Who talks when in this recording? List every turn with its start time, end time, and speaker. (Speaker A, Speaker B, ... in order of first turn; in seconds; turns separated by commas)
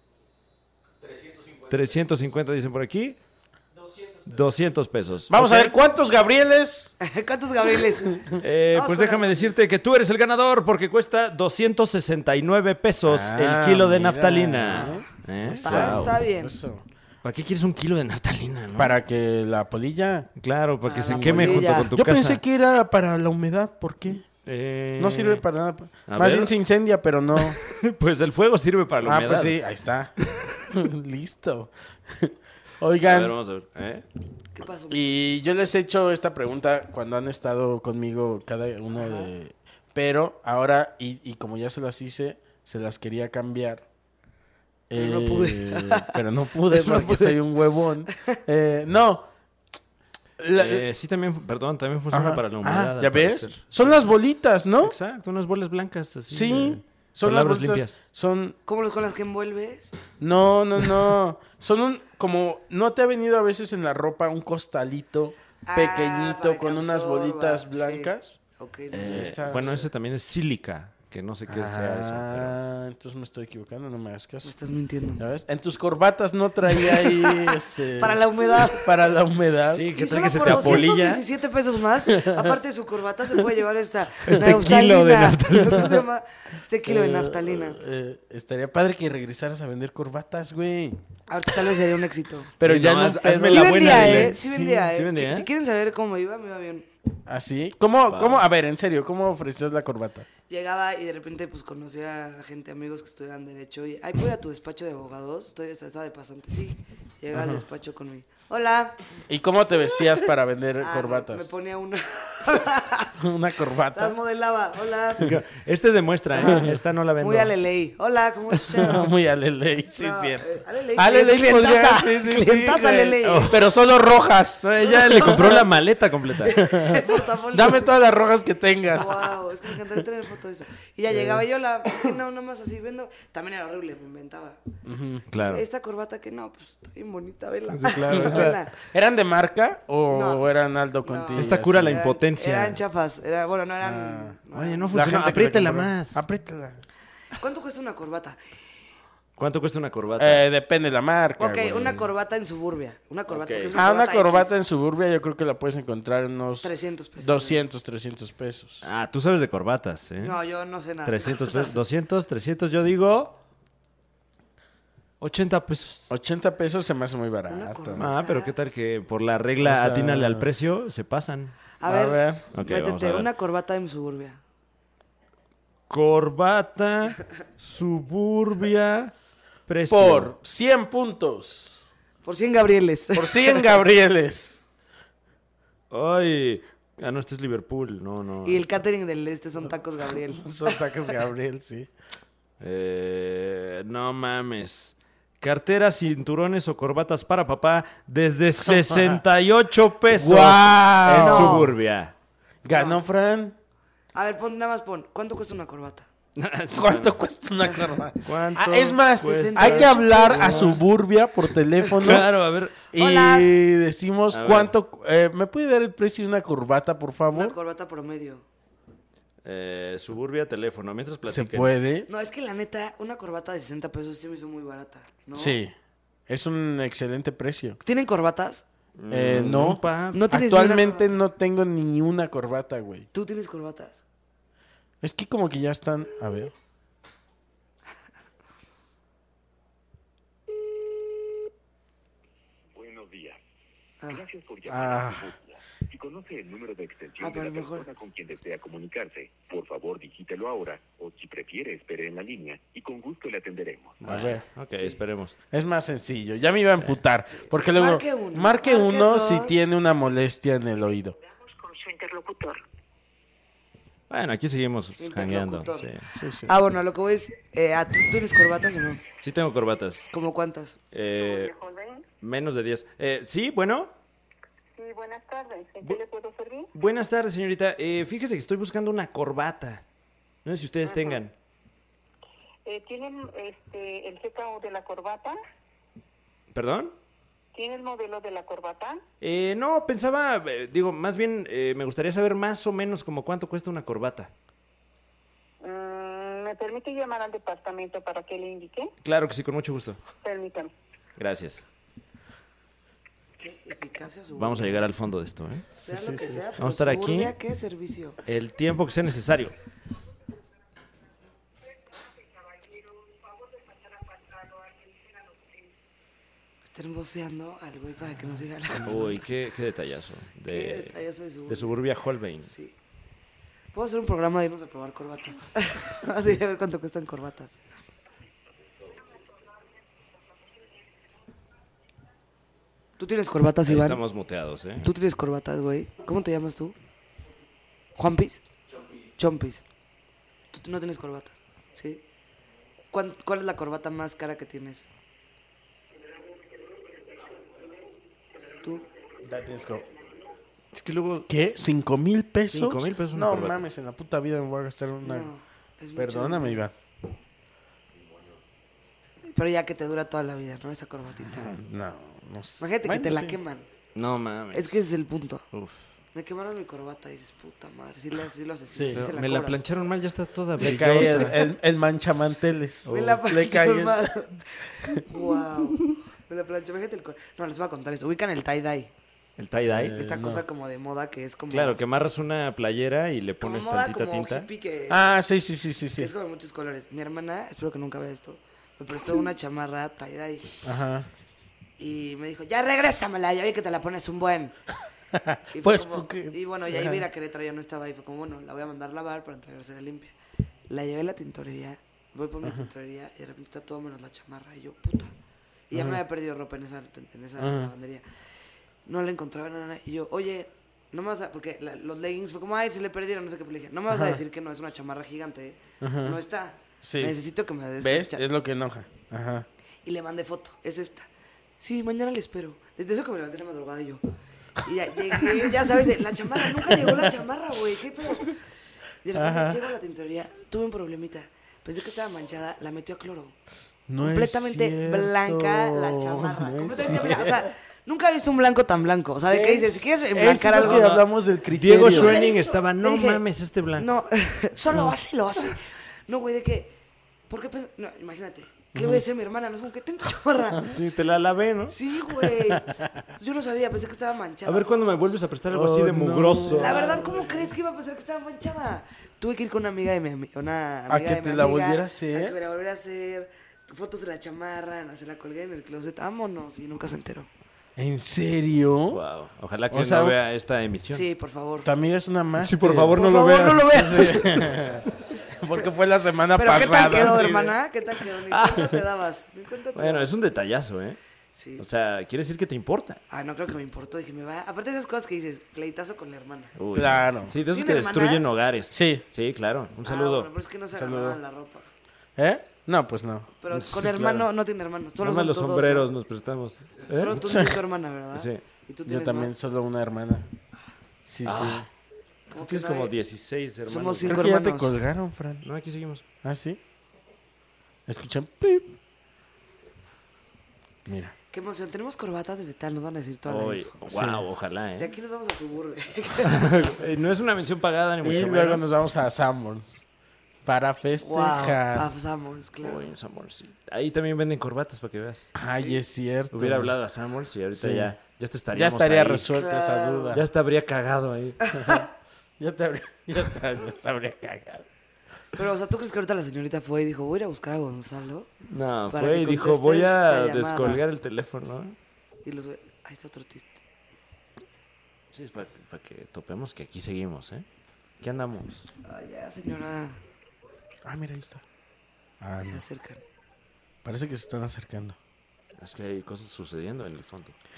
Speaker A: 1.6-3.2, Speaker A: 4.2-5.8, Speaker B: 5.3-7.0, Speaker C: 7.0-9.5, Speaker A: 8.4-16.2, Speaker B: 13.1-16.9, Speaker C: 15.6-16.6, Speaker A: 17.2-18.9, Speaker B: 18.8-20.3, Speaker A: 20.4-22.4, Speaker C: 20.9-21.9, Speaker B: 21.1-24.3, Speaker A: 24.4-25.4, Speaker B: 25.0-27.6, Speaker A: 26.1-26.5, Speaker A: 27.4-29.6, Speaker B: 29.0-33.3, Speaker A: 33.0-34.1, Speaker C: 34.5-35.1, Speaker B: 34.9-43.8, Speaker C: 39.0-39.3, Speaker B: 44.9-49.3, Speaker C: 45.0-46.2, Speaker C: 46.7-47.4, Speaker B: 50.4-50.9, Speaker A: 50.5-54.0, Speaker B: 52.1-55.0, Speaker A: 54.8-58.0, Speaker B: 56.3-58.6, Speaker C: 58.7-59.9, Speaker B: 60.2-68.4, Speaker C: 65.7-69.8, Speaker A: 68.9-72.6, Speaker B: 69.0-69.8, Speaker B: 71.5-74.5, Speaker C: 74.4-75.2, Speaker B: 75.2-80.9, Speaker C: 76.8-78.9, Speaker A: 79.7-81.2, Speaker C: 79.9-87.8, Speaker B: 82.1-82.6, Speaker A: 84.2-86.0, Speaker B: 86.8-91.0, Speaker C: 91.3-92.5, Speaker B: 92.6-94.9, Speaker A: 92.6-95.5, Speaker C: 93.5-96.9, Speaker B: 97.3-100.3, Speaker A: 98.1-98.5, Speaker C: 100.5-109.0, Speaker B: 107.3-107.6, Speaker B: 109.3-111.5, Speaker C: 110.8-113.2, Speaker B: 113.2-114.2, Speaker C: 113.9-115.4, Speaker A: 115.2-117.5, Speaker C: 116.4-116.7, Speaker C: 117.2-119.1, Speaker B: 118.7-125.6, Speaker C: 120.0-123.5, Speaker A: 123.2-123.6, Speaker A: 124.6-126.6, Speaker C: 124.9-125.7, Speaker C: 126.4-127.9, Speaker B: 126.5-129.4, Speaker C: 128.9-134.6, Speaker B: 131.1-132.1, Speaker B: 134.8-135.2, Speaker A: 135.3-135.7, Speaker C: 135.4-138.7, Speaker A: 137.8-138.6, Speaker B: 138.0-142.0, Speaker C: 140.1-140.4, Speaker C: 141.1-144.9, Speaker A: 141.3-142.8, Speaker B: 143.8-146.8, Speaker A: 144.5-146.2, Speaker C: 147.4-148.4, Speaker A: 149.4-150.4, Speaker B: 150.2-152.1, Speaker C: 151.4-154.5, Speaker A: 153.3-153.8, Speaker B: 153.7-158.8, Speaker C: 156.6-157.6, Speaker A: 158.8-160.4, Speaker C: 160.2-161.8, Speaker A: 161.1-163.4, Speaker A: 165.2-166.1, Speaker B: 166.1-168.1, Speaker C: 167.5-168.5, Speaker A: 168.0-171.6, Speaker B: 169.6-170.5, Speaker C: 171.8-174.4, Speaker B: 171.9-172.5, Speaker A: 172.5-173.3, Speaker A: 175.9-179.1, Speaker A: 179.7-180.3, Speaker B: 179.9-181.8, Speaker C: 182.2-183.7, Speaker B: 183.2-184.6, Speaker A: 185.9-188.7, Speaker C: 188.4-190.8, Speaker B: 190.4-191.9, Speaker A: 192.6-202.1, Speaker B: 198.7-199.2, Speaker B: 200.2-201.7, Speaker C: 201.1-201.7, Speaker B: 202.6-203.6, Speaker C: 202.7-203.0, Speaker C: 204.1-206.1, Speaker A: 206.3-207.2, Speaker B: 206.7-212.3, Speaker A: 208.2-210.8, Speaker C: 209.2-210.8, Speaker A: 211.9-212.8, Speaker B: 212.9-217.6, Speaker C: 212.9-213.5, Speaker A: 214.3-214.7, Speaker C: 217.3-218.4, Speaker A: 219.4-221.7, Speaker B: 221.3-222.1, Speaker C: 222.1-225.6, Speaker B: 225.3-225.7, Speaker B: 226.3-227.8, Speaker C: 227.8-228.7, Speaker A: 229.0-230.2, Speaker B: 229.1-233.1, Speaker C: 230.1-231.1, Speaker C: 233.1-234.0, Speaker B: 235.0-236.5, Speaker D: 242.7-243.4, Speaker D: 244.1-254.0, Speaker B: 244.7-245.3, Speaker C: 247.2-247.9, Speaker B: 254.0-254.4, Speaker A: 254.0-255.4, Speaker B: 255.5-261.2, Speaker C: 257.3-259.6, Speaker E: 261.3-262.6, Speaker A: 264.1-266.1, Speaker C: 265.0-265.9, Speaker B: 266.1-266.5, Speaker C: 266.5-269.0, Speaker A: 269.2-270.1, Speaker C: 270.1-270.8, Speaker A: 270.9-271.5, Speaker E: 271.2-272.1, Speaker A: 272.2-273.9, Speaker E: 274.8-276.7, Speaker A: 276.7-279.8, Speaker A: 280.4-281.3, Speaker E: 280.9-281.2, Speaker E: 282.7-285.4, Speaker A: 286.5-286.9, Speaker E: 287.5-289.0, Speaker A: 289.2-294.3, Speaker E: 295.6-298.9, Speaker A: 299.0-300.0, Speaker E: 300.2-300.7, Speaker A: 301.2-301.6, Speaker C: 303.4-304.9, Speaker A: 304.4-305.7, Speaker C: 305.8-308.2, Speaker B: 305.9-306.4, Speaker A: 306.6-307.4, Speaker A: 308.2-309.6, Speaker E: 311.9-315.7, Speaker C: 316.7-319.2, Speaker A: 318.8-322.5, Speaker C: 320.5-321.8, Speaker C: 322.4-322.8, Speaker C: 323.7-327.6, Speaker E: 329.0-330.7, Speaker C: 333.0-334.0, Speaker A: 333.6-334.9, Speaker C: 334.8-336.8, Speaker C: 338.0-338.4, Speaker C: 339.1-339.6, Speaker C: 340.5-342.0, Speaker C: 342.9-344.9, Speaker E: 346.6-347.1, Speaker B: 349.2-349.9, Speaker A: 350.7-351.3, Speaker B: 351.3-355.3, Speaker A: 352.5-353.7, Speaker C: 355.0-356.6, Speaker B: 356.0-356.7, Speaker C: 359.3-361.5, Speaker B: 361.4-363.4, Speaker C: 362.6-363.7, Speaker A: 363.9-364.8, Speaker C: 364.5-365.4, Speaker A: 365.5-365.9, Speaker C: 366.1-369.6, Speaker B: 368.7-369.1, Speaker A: 368.9-371.5, Speaker B: 370.6-374.2, Speaker A: 372.9-373.2, Speaker C: 372.9-378.9, Speaker A: 379.4-380.0, Speaker B: 379.7-380.4, Speaker C: 380.0-381.8, Speaker A: 381.5-384.5, Speaker C: 383.4-385.1, Speaker B: 384.9-386.1, Speaker C: 386.0-390.6, Speaker B: 390.6-391.1, Speaker C: 391.8-394.6, Speaker B: 395.1-397.0, Speaker C: 395.5-400.1, Speaker C: 400.7-405.1, Speaker C: 405.7-408.0, Speaker B: 405.7-406.0, Speaker B: 407.4-407.7, Speaker C: 408.9-418.2, Speaker B: 413.9-414.2, Speaker B: 415.8-416.2, Speaker B: 416.8-417.2, Speaker B: 417.8-419.5, Speaker C: 419.9-421.1, Speaker C: 421.6-424.0, Speaker C: 424.6-428.4, Speaker B: 426.6-427.1, Speaker C: 429.0-433.4, Speaker B: 429.1-429.6, Speaker B: 433.9-437.5, Speaker C: 434.0-440.9, Speaker B: 439.3-442.2, Speaker A: 440.6-443.9, Speaker C: 441.9-443.2, Speaker C: 443.8-446.8, Speaker C: 447.3-450.8, Speaker B: 448.8-449.0, Speaker A: 450.7-451.8, Speaker C: 451.7-454.9, Speaker A: 454.4-457.0, Speaker B: 455.5-457.5, Speaker C: 456.5-467.3, Speaker B: 460.9-462.4, Speaker B: 467.8-469.0, Speaker A: 468.9-471.1, Speaker B: 469.7-470.2, Speaker C: 470.9-471.7, Speaker B: 471.6-477.5, Speaker A: 472.4-474.1, Speaker C: 472.9-474.5, Speaker C: 476.4-480.2, Speaker A: 478.3-478.7, Speaker A: 479.7-481.0, Speaker C: 481.3-481.6, Speaker A: 481.6-483.0, Speaker C: 483.1-486.5, Speaker A: 486.6-490.3, Speaker B: 486.7-487.3, Speaker C: 487.5-488.3, Speaker B: 488.7-489.1, Speaker C: 489.8-491.7, Speaker B: 490.8-491.2, Speaker B: 492.2-494.3, Speaker C: 493.4-495.9, Speaker A: 495.0-497.2, Speaker C: 496.9-499.4, Speaker B: 497.2-497.6, Speaker A: 498.1-498.4, Speaker B: 498.9-500.3, Speaker B: 501.1-501.7, Speaker A: 501.2-501.7, Speaker C: 502.3-502.9, Speaker A: 502.3-504.2, Speaker C: 503.7-504.7, Speaker B: 504.1-505.5, Speaker A: 505.4-506.0, Speaker B: 506.2-506.6, Speaker B: 507.9-508.8, Speaker B: 510.9-511.1, Speaker C: 511.3-513.8, Speaker A: 513.3-514.9, Speaker B: 513.9-514.2, Speaker C: 514.8-516.7, Speaker A: 516.2-518.7, Speaker B: 518.0-519.8, Speaker B: 520.5-521.9, Speaker C: 521.0-522.8, Speaker A: 522.6-525.3, Speaker B: 525.4-526.7, Speaker A: 526.3-529.3, Speaker B: 527.5-527.9, Speaker B: 528.5-530.3, Speaker C: 529.3-530.2, Speaker A: 530.1-531.4, Speaker C: 531.5-531.8, Speaker B: 531.5-531.9, Speaker B: 532.4-534.6, Speaker C: 535.4-538.3, Speaker A: 538.5-541.8, Speaker C: 538.9-540.8, Speaker C: 542.2-543.6, Speaker A: 545.1-547.5, Speaker A: 548.0-548.7, Speaker C: 548.8-550.0, Speaker B: 550.9-551.4, Speaker B: 552.2-552.6, Speaker C: 552.4-553.0, Speaker B: 553.8-555.0, Speaker A: 555.6-557.4